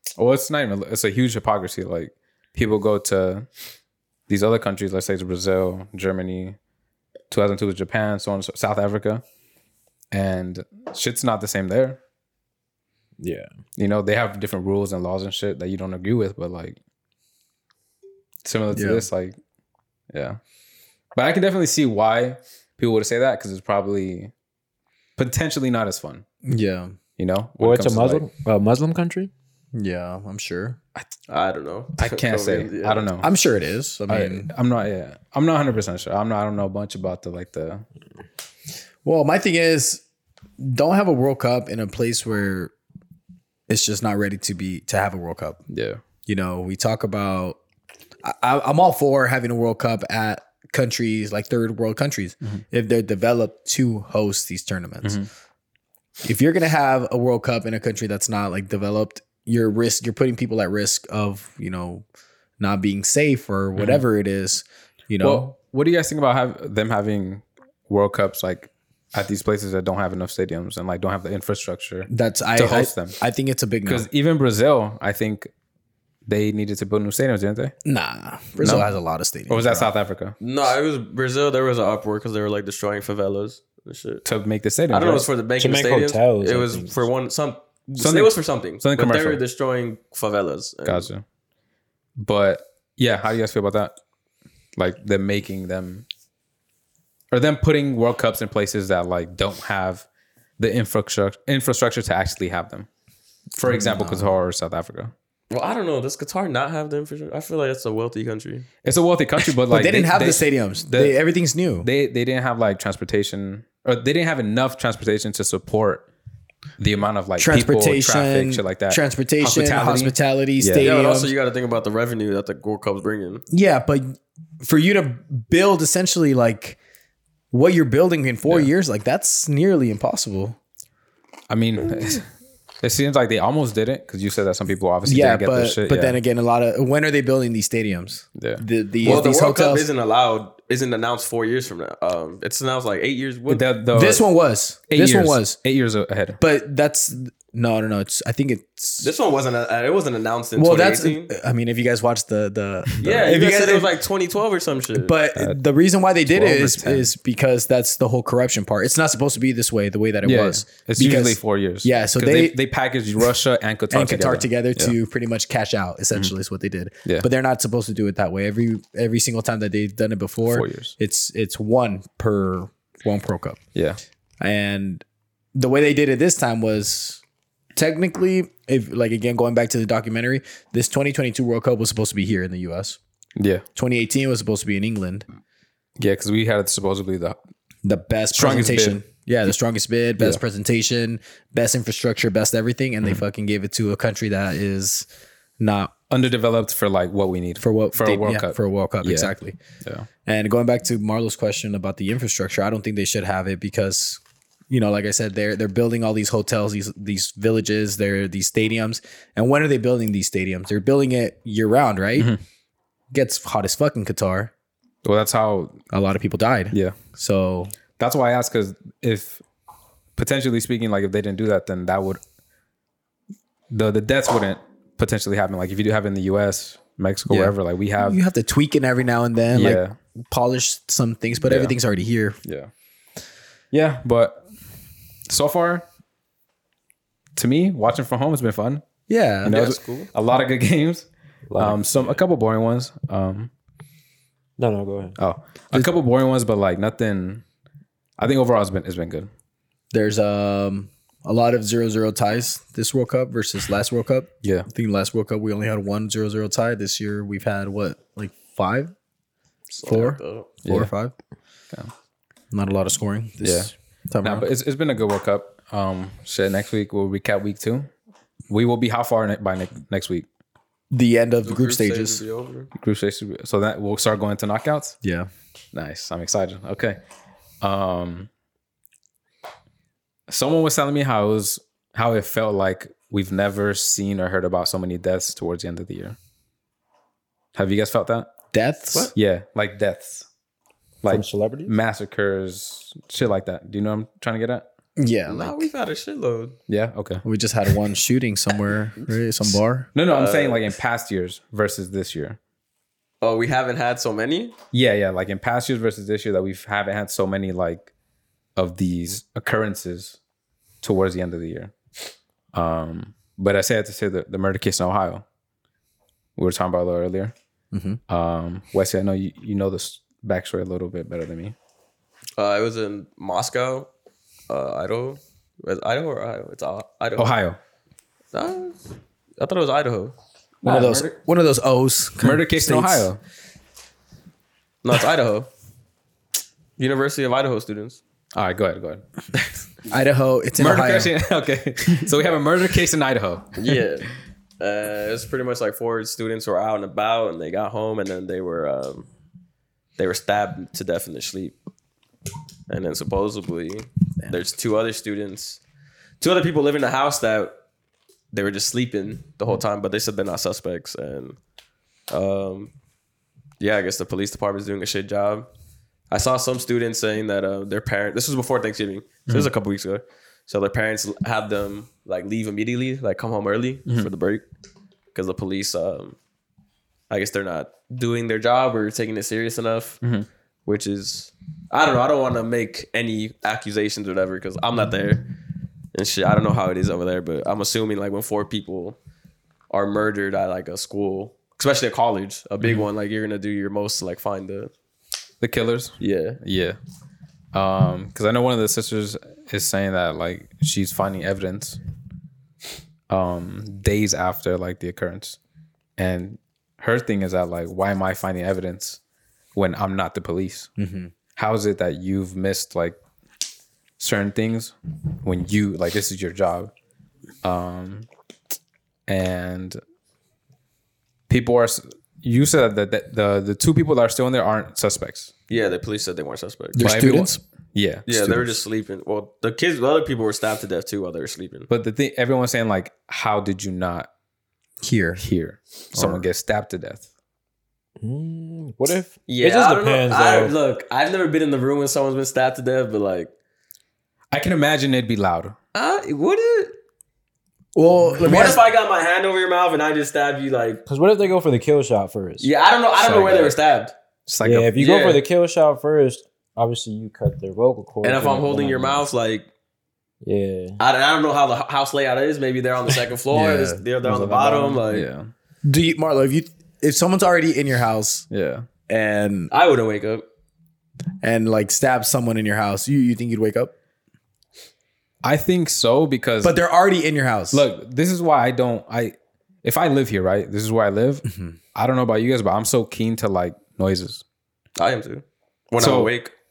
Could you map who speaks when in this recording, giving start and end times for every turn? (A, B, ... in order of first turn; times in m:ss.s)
0:00.2-0:03.5 A
0:04.3-0:06.6 A
0:07.3-0:09.2 A
0:10.1-0:12.0 A
0:13.2-0:13.5 B
0:13.8-0:16.8 A
0:18.4-0:19.4 A
0:18.7-0:19.1 C
0:20.1-0:20.4 A
0:21.2-0:24.3 A
0:25.2-0:26.2 A
0:26.4-0:26.9 C
0:27.2-0:28.2 A
0:27.6-0:29.3 B
0:29.8-0:30.8 C
0:31.3-0:33.1 D
0:32.0-0:33.3 A
0:33.2-0:34.5 C
0:34.1-0:37.8 A
0:39.0-0:40.0 C
0:40.6-0:42.7 C
0:43.7-0:45.6 C
0:45.7-0:46.0 A
0:46.3-0:47.6 C
0:48.2-0:55.2 C
0:55.0-0:55.3 A
0:56.2-1:02.0 C
1:02.6-1:05.5 C
1:03.8-1:04.0 A
1:05.2-1:13.2 A
1:12.1-1:14.1 C
1:13.9-1:15.5 A
1:16.3-1:17.7 A
1:17.8-1:19.9 C
1:18.6-1:18.9 A
1:19.5-1:20.4 A
1:20.4-1:24.2 D
1:24.2-1:25.3 A
1:24.9-1:31.1 D
1:25.6-1:27.1 B
1:28.0-1:29.4 A
1:30.8-1:31.2 A
1:32.2-1:34.0 A
1:34.8-1:36.0 A
1:37.3-1:40.1 A
1:40.6-1:42.9 A
1:43.6-1:45.1 A
1:43.7-1:44.3 C
1:45.5-1:48.7 D
1:48.8-1:51.2 A
1:49.7-1:51.9 C
1:51.8-1:56.1 A
1:56.8-2:00.9 A
1:57.4-2:01.3 C
2:00.8-2:03.4 D
2:03.5-2:06.8 C
2:07.5-2:10.6 C
2:11.5-2:12.3 A
2:12.8-2:16.2 A
2:15.0-2:19.9 C
2:18.4-2:19.2 A
2:19.0-2:23.6 D
2:23.5-2:24.2 A
2:23.9-2:25.6 C
2:24.9-2:26.4 A
2:26.4-2:29.1 C
2:29.0-2:31.3 D
2:30.6-2:33.9 C
2:33.0-2:35.2 D
2:35.0-2:42.6 C
2:36.3-2:37.1 A
2:40.2-2:45.0 A
2:43.9-2:53.6 C
2:50.4-2:51.0 A
2:54.4-2:55.0 C
2:55.6-2:57.2 C
2:57.8-3:03.0 C
3:03.4-3:03.6 A
3:03.8-3:05.3 C
3:06.0-3:07.4 A
3:07.8-3:15.1 C
3:08.3-3:09.0 A
3:15.6-3:15.9 C
3:16.1-3:19.3 A
3:17.6-3:19.6 C
3:20.3-3:32.3 C
3:33.1-3:34.5 C
3:35.0-3:35.8 A
3:35.9-3:37.7 C
3:36.7-3:37.0 A
3:38.0-3:39.4 A
3:40.2-3:42.2 A
3:43.7-3:48.2 A
3:47.3-3:52.4 C
3:49.5-3:50.0 A
3:51.5-3:51.8 A
3:52.4-3:52.7 A
3:53.7-3:54.4 A
3:55.3-3:55.9 A
3:57.4-3:58.8 A
3:59.1-3:59.6 C
3:59.4-4:03.5 A
3:59.5-4:00.1 D
4:01.5-4:02.2 B
4:04.6-4:05.2 B
4:05.2-4:07.4 A
4:08.2-4:09.3 A
4:09.9-4:18.9 C
4:14.4-4:14.7 A
4:19.7-4:20.5 D
4:19.9-4:21.1 C
4:20.6-4:20.9 A
4:22.5-4:24.5 C
4:23.4-4:23.7 A
4:24.2-4:27.9 A
4:28.5-4:30.3 A
4:30.9-4:32.2 C
4:31.4-4:32.7 D
4:32.8-4:35.0 A
4:35.0-4:35.3 C
4:35.7-4:37.0 A
4:37.6-4:38.3 A
4:40.3-4:46.2 A
4:47.6-4:48.3 A
4:48.5-4:49.1 C
4:49.2-4:50.3 A
4:51.0-4:54.6 A
4:51.1-4:51.7 B
4:55.0-4:55.7 C
4:55.3-4:56.6 D
4:56.7-4:57.2 A
4:57.2-4:59.9 C
5:00.0-5:02.4 A
5:00.1-5:00.7 D
5:03.2-5:04.6 D
5:04.7-5:07.9 A
5:08.6-5:10.2 A
5:10.8-5:11.7 A
5:12.5-5:15.2 A
5:16.4-5:17.3 A
5:17.7-5:18.0 C
5:18.1-5:21.6 A
5:22.4-5:23.9 D
5:24.5-5:27.3 D
5:27.2-5:27.6 A
5:28.3-5:28.8 D
5:29.4-5:30.2 D
5:30.6-5:31.1 A
5:30.6-5:33.1 C
5:32.2-5:33.2 A
5:34.8-5:35.5 D
5:36.8-5:38.0 D
5:38.4-5:39.0 A
5:39.9-5:41.1 C
5:40.6-5:43.8 A
5:43.6-5:44.1 D
5:44.6-5:49.1 D
5:50.0-5:51.6 D
5:52.7-5:55.6 D
5:56.2-5:57.5 D
5:58.3-6:01.4 D
6:02.1-6:02.7 D
6:03.6-6:05.5 D
6:06.1-6:14.4 D
6:15.1-6:16.2 D
6:17.1-6:20.0 D
6:20.7-6:25.3 D
6:25.9-6:29.0 D
6:29.7-6:34.7 D
6:35.4-6:36.8 A
6:36.0-6:36.4 D
6:37.5-6:41.8 A
6:43.1-6:45.4 A
6:46.0-6:49.0 A
6:49.6-6:50.7 A
6:50.8-6:51.1 C
6:51.4-6:53.0 A
6:54.0-6:56.7 A
6:57.4-6:58.1 A
6:59.1-6:59.8 A
7:01.3-7:05.3 A
7:05.5-7:06.8 D
7:06.8-7:07.4 C
7:06.8-7:08.5 A
7:08.1-7:11.7 D
7:11.7-7:14.1 A
7:14.8-7:15.2 C
7:15.2-7:17.1 A
7:15.9-7:16.3 C
7:18.0-7:20.6 B
7:19.3-7:23.3 D
7:24.3-7:25.6 A
7:25.7-7:26.8 D
7:27.8-7:28.6 C
7:28.2-7:30.8 D
7:30.9-7:32.5 B
7:32.4-7:33.9 D
7:33.0-7:33.6 A
7:34.3-7:34.8 A
7:34.4-7:39.1 B
7:34.8-7:35.2 D
7:38.0-7:39.5 D
7:40.2-7:40.8 B
7:40.8-7:45.1 D
7:43.3-7:43.8 C
7:44.1-7:44.3 B
7:44.9-7:45.3 A
7:45.6-7:48.3 C
7:48.3-7:48.6 A
7:48.9-7:49.5 C
7:49.5-7:50.2 D
7:51.2-7:53.7 C
7:55.2-7:56.6 A
7:56.4-7:57.6 C
7:57.5-8:04.2 A
8:01.3-8:01.6 C
8:04.8-8:06.3 D
8:05.8-8:06.1 A